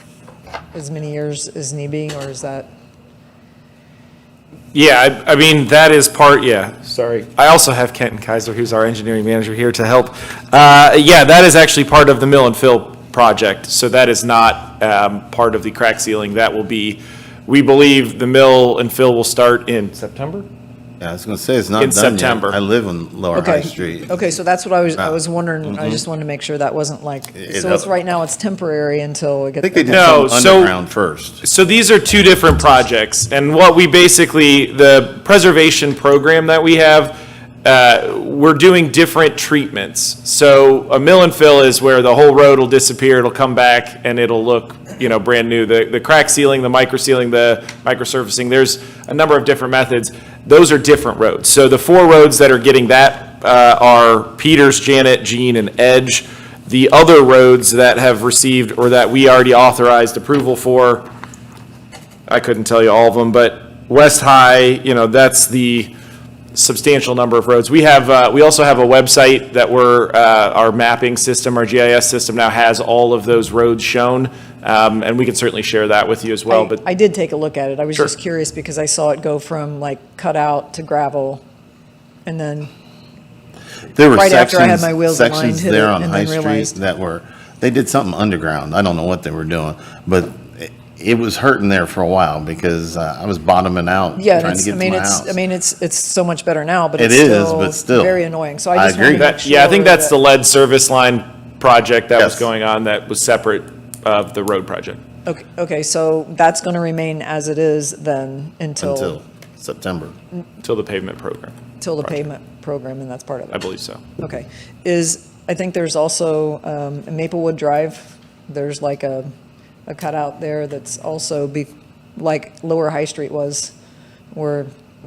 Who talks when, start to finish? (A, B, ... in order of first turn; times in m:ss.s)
0:00.7-0:02.7 A
0:04.7-0:20.4 B
0:21.0-0:24.2 C
0:21.8-0:22.6 B
0:23.3-0:30.2 A
0:25.7-0:26.0 C
0:27.3-0:27.9 C
0:29.6-0:31.4 C
0:29.9-0:30.8 B
0:31.4-1:01.0 B
1:02.3-1:05.9 B
1:06.5-1:16.8 B
1:16.5-1:21.4 A
1:22.2-1:22.7 A
1:23.9-1:35.4 C
1:24.1-1:26.8 A
1:34.2-1:40.2 A
1:37.0-1:38.2 C
1:38.7-1:39.3 C
1:39.2-1:45.0 B
1:42.2-1:42.4 C
1:45.2-1:49.2 A
1:48.8-1:50.1 C
1:50.6-1:51.5 B
1:51.8-1:53.6 A
1:53.5-1:54.0 B
1:54.2-1:59.3 A
1:59.9-2:03.7 A
2:04.3-2:04.7 A